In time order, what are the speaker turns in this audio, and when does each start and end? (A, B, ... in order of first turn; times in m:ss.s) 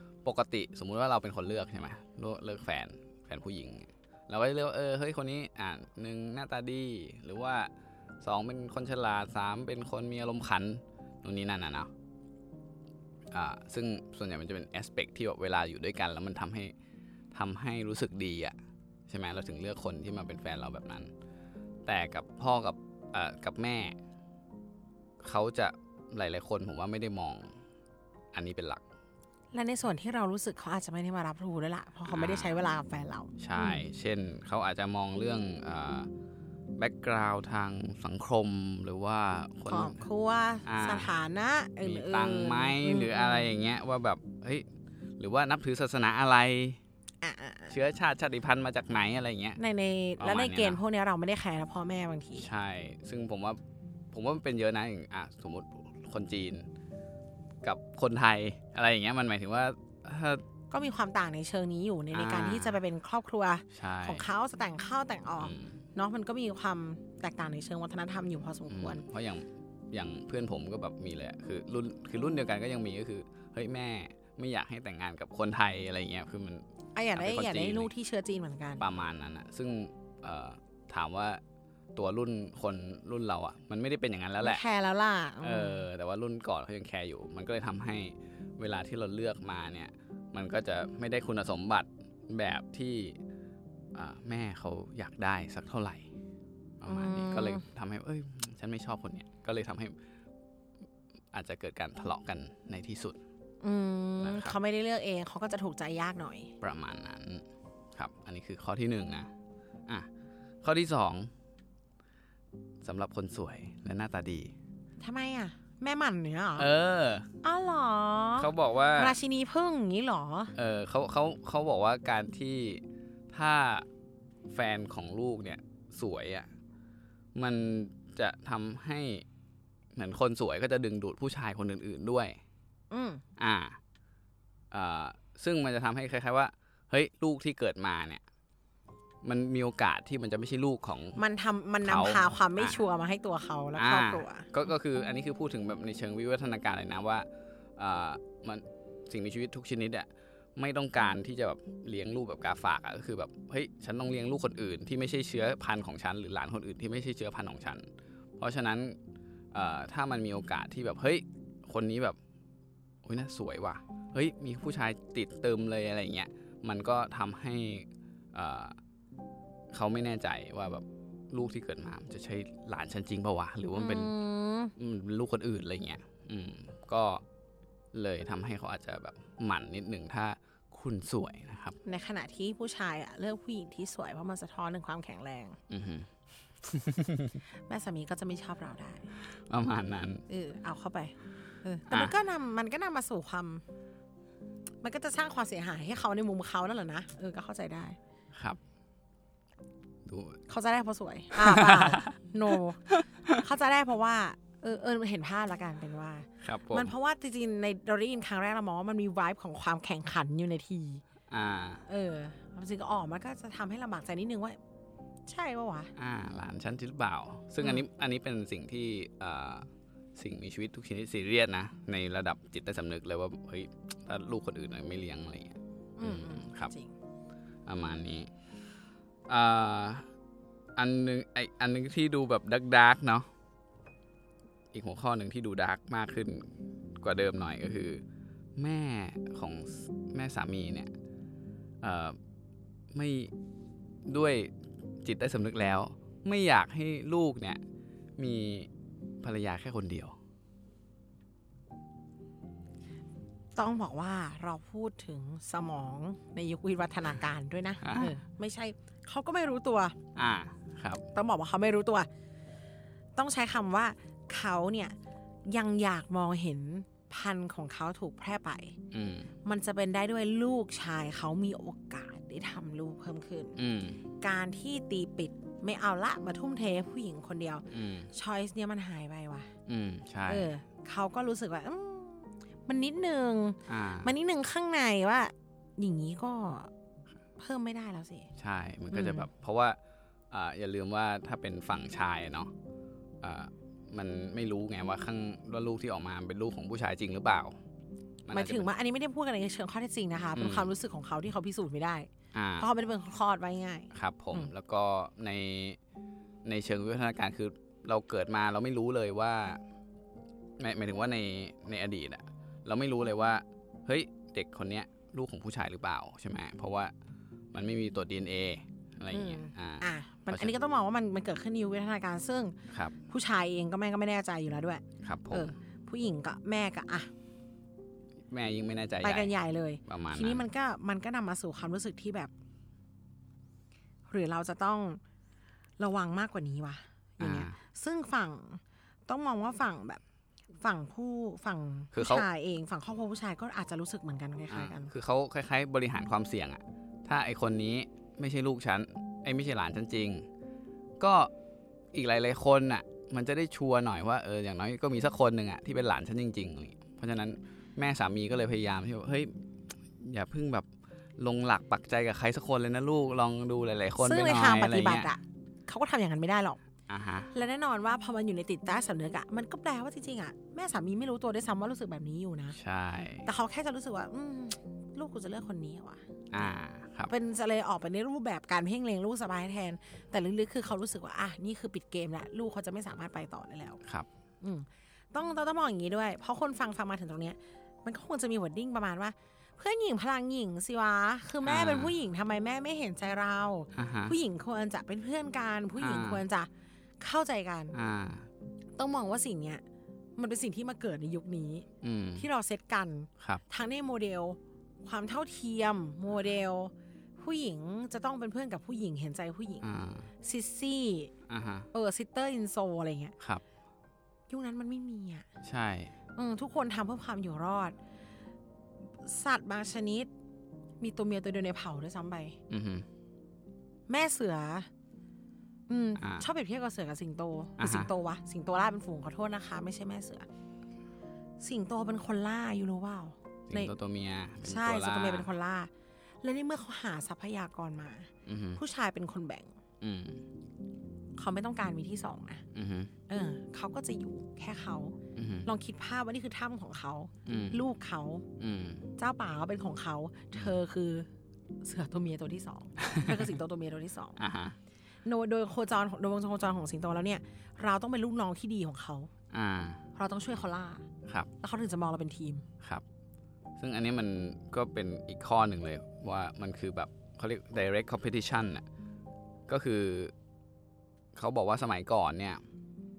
0:00.2-0:07.7 A
0:08.2-0:11.9 A
0:13.3-0:16.7 A
0:17.3-0:18.6 A
0:19.1-0:21.1 A
0:21.8-0:24.0 A
0:25.2-0:27.5 A
0:28.3-0:28.8 A
0:29.5-0:33.8 B
0:32.0-0:32.6 A
0:33.4-0:36.1 A
0:36.8-0:40.0 A
0:39.7-0:43.5 B
0:40.6-0:41.1 A
0:41.8-0:44.6 A
0:45.2-0:46.8 A
0:47.2-0:47.8 B
0:47.7-0:49.6 A
0:49.6-0:52.5 B
0:50.2-0:50.8 A
0:52.4-0:53.6 A
0:54.1-0:56.7 A
0:57.6-1:00.4 A
1:00.7-1:09.0 B
1:02.1-1:02.8 A
1:03.7-1:04.3 A
1:05.4-1:05.8 A
1:08.7-1:17.9 A
1:16.9-1:18.8 B
1:18.8-1:21.4 A
1:21.9-1:24.6 A
1:24.4-1:25.8 B
1:25.4-1:33.2 A
1:33.9-1:36.1 A
1:36.8-1:39.9 A
1:36.8-1:37.6 B
1:41.3-1:43.2 A
1:43.6-1:46.5 B
1:44.2-1:44.6 A
1:46.6-1:49.3 A
1:50.6-1:51.3 A
1:52.8-1:54.5 A
1:55.0-1:56.7 B
1:56.6-1:57.3 A
1:57.4-2:00.5 B
1:58.4-1:59.2 A
2:00.5-2:03.8 A
2:04.5-2:06.5 A
2:07.3-2:09.2 A
2:10.0-2:12.4 A
2:12.9-2:13.2 B
2:13.4-2:13.8 A
2:14.7-2:18.2 A
2:19.2-2:21.2 A
2:21.2-2:24.5 B
2:21.8-2:22.8 A
2:23.8-2:37.8 A
2:38.4-2:39.0 A
2:39.5-2:42.2 A
2:43.0-2:48.8 A
2:49.7-2:54.2 A
2:53.7-2:54.7 B
2:54.8-2:57.2 A
2:57.9-3:01.8 A
3:01.8-3:05.6 B
3:05.7-3:06.1 A
3:06.6-3:07.4 A
3:07.7-3:09.1 B
3:09.5-3:10.2 A
3:10.3-3:13.6 B
3:11.9-3:12.2 A
3:14.8-3:18.0 B
3:18.3-3:18.6 A
3:20.0-3:20.4 A
3:20.5-3:31.0 B
3:21.4-3:22.1 A
3:26.4-3:26.9 A
3:31.3-3:31.8 A
3:31.9-3:34.6 B
3:35.2-3:35.9 B
3:36.0-3:46.7 A
3:46.0-3:46.9 B
3:47.6-3:48.3 A
3:49.3-3:50.0 A
3:50.8-3:53.3 A
3:54.7-3:58.0 A
3:58.6-4:00.9 A
4:01.8-4:02.2 A
4:02.9-4:03.3 A
4:04.1-4:04.5 A
4:05.0-4:07.6 A
4:08.2-4:08.7 A
4:09.2-4:10.2 A
4:13.5-4:20.0 B
4:17.8-4:18.1 A
4:20.2-4:21.0 A
4:21.1-4:22.1 B
4:23.2-4:25.0 B
4:25.5-4:28.7 B
4:28.9-4:29.3 A
4:29.4-4:33.6 B
4:33.6-4:34.0 A
4:34.2-4:39.5 B
4:37.7-4:38.1 A
4:39.7-4:40.5 A
4:40.3-4:46.7 B
4:43.7-4:44.1 A
4:47.4-4:48.3 B
4:48.4-4:49.8 A
4:48.9-4:49.3 B
4:50.3-4:52.5 A
4:53.2-4:57.6 A
4:58.2-4:58.7 A
4:58.3-5:04.5 B
5:00.3-5:00.8 A
5:02.3-5:02.7 A
5:03.9-5:05.8 A
5:06.4-5:09.6 A
5:10.6-5:16.9 A
5:17.5-5:20.6 A
5:19.1-5:22.6 B
5:23.1-5:27.1 B
5:25.0-5:25.6 A
5:28.3-5:29.3 A
5:29.0-5:32.3 B
5:29.9-5:30.5 A
5:34.1-5:35.0 B
5:35.8-5:40.0 B
5:37.2-5:37.6 A
5:40.6-5:44.9 B
5:41.9-5:42.3 A
5:44.5-5:50.3 A
5:51.0-5:51.3 A
5:51.9-5:59.4 A
6:00.0-6:00.7 A
6:01.2-6:05.1 A
6:04.0-6:06.6 B
6:06.9-6:07.3 A
6:07.3-6:12.6 B
6:12.5-6:13.3 A
6:13.2-6:16.0 B
6:16.3-6:17.1 A
6:17.1-6:23.8 B
6:24.4-6:37.8 B
6:31.4-6:32.0 A
6:33.7-6:34.2 A
6:35.8-6:36.2 A
6:37.7-6:38.3 A
6:38.8-6:39.6 B
6:40.2-6:41.6 B
6:41.8-6:42.3 A
6:42.2-6:49.7 B
6:49.6-6:50.1 A
6:50.2-6:51.1 B
6:51.3-6:51.7 A
6:51.7-6:53.1 B
6:54.3-6:55.2 B
6:55.4-6:55.9 A
6:56.1-6:57.8 B
6:59.0-7:00.1 B
7:00.8-7:02.4 B
7:02.5-7:02.8 A
7:03.9-7:04.7 B
7:05.7-7:10.2 B
7:06.0-7:06.2 A
7:07.6-7:07.9 A
7:11.4-7:13.7 B
7:13.5-7:15.3 A
7:14.4-7:15.7 B
7:16.2-7:19.5 B
7:18.2-7:18.6 A
7:19.8-7:20.2 A
7:21.2-7:22.4 B
7:22.5-7:22.9 A
7:23.1-7:28.2 B
7:25.2-7:25.5 A
7:27.2-7:27.6 A
7:28.4-7:28.9 A
7:29.0-7:31.1 B
7:31.6-7:34.2 B
7:34.2-7:34.6 A
7:35.0-7:39.1 B
7:39.3-7:39.8 A
7:40.0-7:40.8 B
7:41.4-7:42.4 B
7:43.6-7:48.6 A
7:49.5-7:50.1 A
7:51.1-7:52.4 A